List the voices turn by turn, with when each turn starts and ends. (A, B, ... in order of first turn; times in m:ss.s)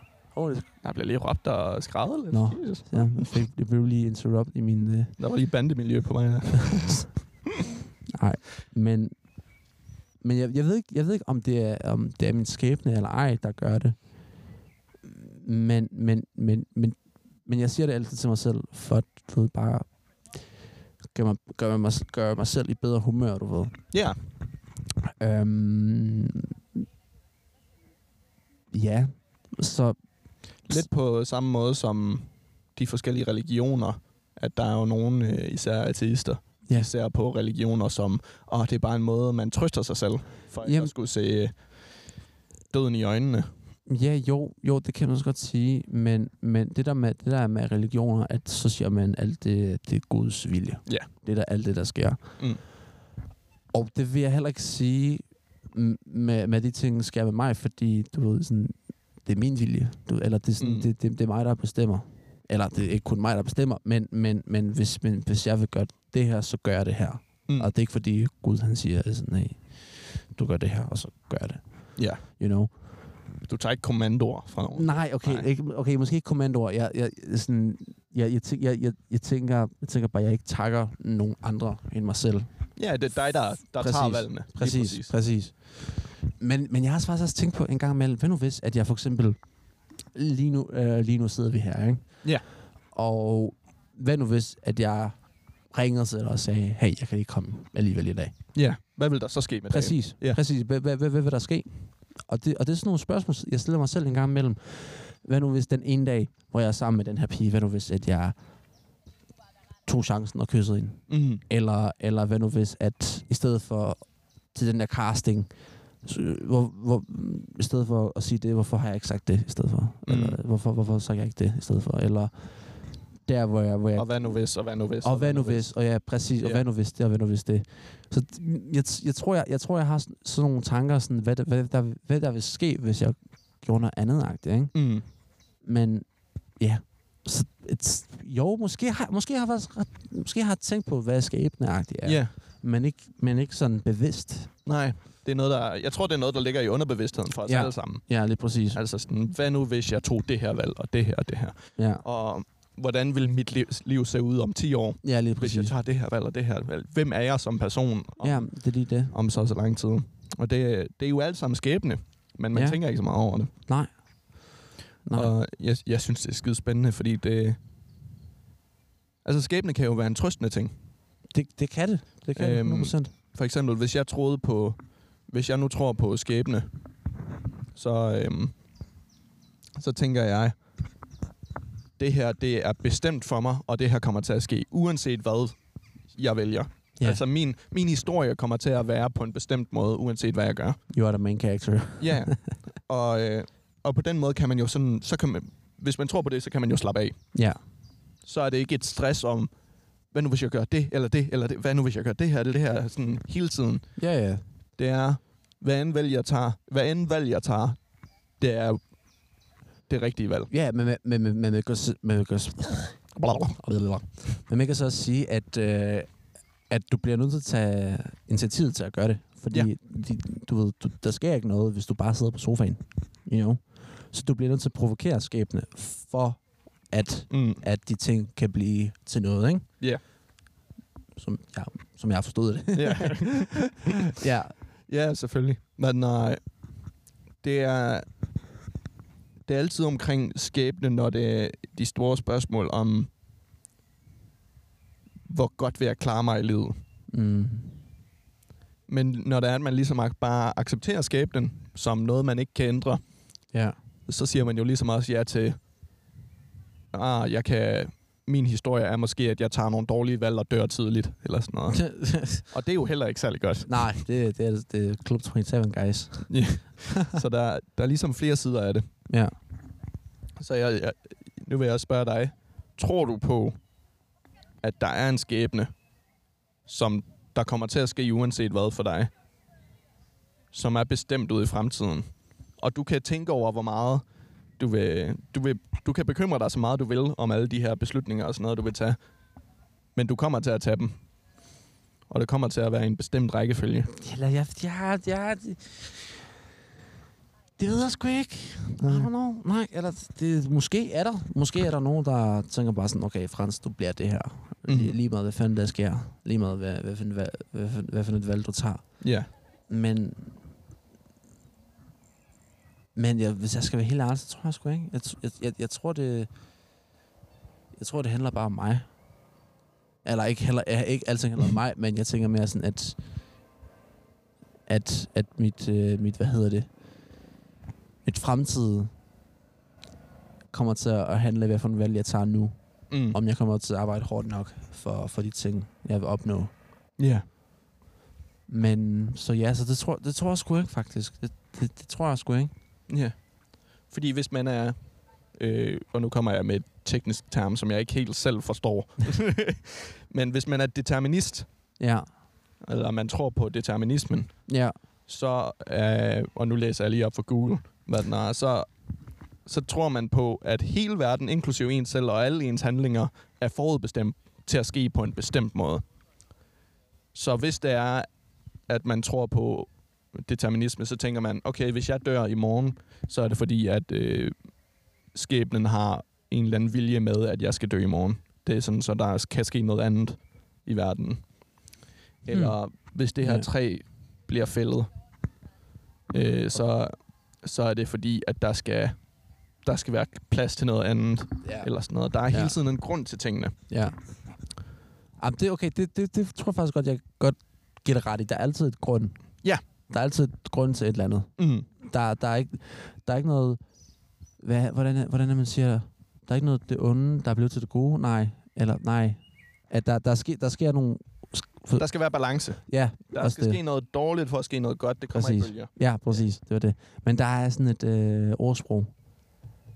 0:00.3-0:00.7 A
0:00.8-0:03.3 B
0:02.3-0:05.2 A
0:05.2-0:07.2 B
0:08.1-0:09.2 A
0:10.2-0:14.3 A
0:15.0-0:20.4 A
0:21.1-0:23.8 A
0:23.9-0:24.2 B
0:25.2-0:26.8 A
0:28.7-0:30.8 A
0:30.6-0:42.1 B
0:40.6-0:40.9 A
0:42.7-0:43.5 B
0:43.9-0:52.4 A
0:53.7-1:12.7 A
1:00.6-1:00.9 B
1:12.0-1:12.2 B
1:13.4-1:15.5 B
1:14.7-1:22.5 A
1:22.8-1:25.1 B
1:23.8-1:29.4 A
1:30.1-1:32.3 A
1:32.9-1:38.4 A
1:38.5-1:40.4 B
1:39.7-1:48.4 A
1:49.8-2:04.3 A
1:51.1-1:51.4 B
2:00.0-2:00.4 B
2:03.9-2:05.8 B
2:05.0-2:14.8 A
2:14.7-2:15.0 B
2:15.6-2:24.5 A
2:22.0-2:22.3 B
2:24.6-2:43.5 B
2:27.4-2:28.8 A
2:31.8-2:32.0 A
2:35.0-2:35.7 A
2:38.2-2:39.1 A
2:42.5-2:42.8 A
2:43.6-2:45.3 A
2:45.1-2:47.6 B
2:49.2-2:50.7 B
2:51.3-2:53.1 A
2:52.4-2:56.7 B
2:57.7-2:58.5 B
2:59.8-3:00.5 B
3:02.0-3:10.8 B
3:10.9-3:12.5 A
3:12.0-3:17.4 B
3:17.3-3:17.6 A
3:18.2-3:19.5 B
3:20.1-3:24.0 B
3:24.0-3:24.4 A
3:24.8-3:27.8 B
3:28.4-3:28.8 B
3:29.9-3:30.5 B
3:30.5-3:49.7 A
3:33.1-3:33.6 B
3:47.3-3:47.6 B
3:51.2-3:54.6 A
3:52.7-3:53.9 B
3:54.9-3:56.4 B
3:57.4-3:58.0 B
3:59.4-4:03.1 B
4:05.3-4:06.8 B
4:07.1-4:07.8 A
4:08.9-4:13.1 B
4:13.5-4:13.8 A
4:14.1-4:15.6 B
4:16.9-4:23.9 B
4:21.7-4:22.5 A
4:23.6-4:26.4 A
4:26.3-4:28.8 B
4:29.1-4:29.3 A
4:30.4-4:33.6 B
4:34.6-4:35.8 B
4:36.6-4:39.1 B
4:40.5-4:44.0 B
4:44.6-4:49.0 B
4:49.9-4:50.9 B
4:52.1-4:53.9 B
4:53.9-4:56.2 A
4:57.6-5:09.1 A
4:58.8-4:59.1 B
5:04.6-5:05.0 B
5:09.0-5:09.3 B
5:09.7-5:10.4 A
5:12.9-5:16.3 A
5:17.7-5:18.9 A
5:20.0-5:23.0 A
5:24.7-5:26.7 A
5:28.0-5:28.9 A
5:30.5-5:36.5 A
5:32.9-5:33.2 B
5:37.0-5:37.2 B
5:38.5-5:42.5 A
5:42.9-5:43.2 B
5:43.8-5:44.8 B
5:45.3-5:51.5 B
5:51.8-5:52.1 A
5:52.6-5:54.5 B
5:54.5-5:54.8 A
5:55.1-5:58.7 B
5:59.4-6:05.8 B
6:07.1-6:08.1 B
6:08.7-6:14.3 B
6:15.1-6:21.3 B
6:22.2-6:24.9 B
6:22.3-6:22.6 A
6:23.2-6:23.5 A
6:26.1-6:29.0 B
6:29.6-6:33.5 B
6:31.4-6:31.7 A
6:32.3-6:32.5 A
6:33.7-6:34.0 A
6:35.2-6:39.2 A
6:39.9-6:43.6 A
6:41.4-6:41.6 B
6:44.4-6:51.8 A
6:51.8-6:56.2 B
6:52.6-6:53.6 A
6:55.1-6:58.9 A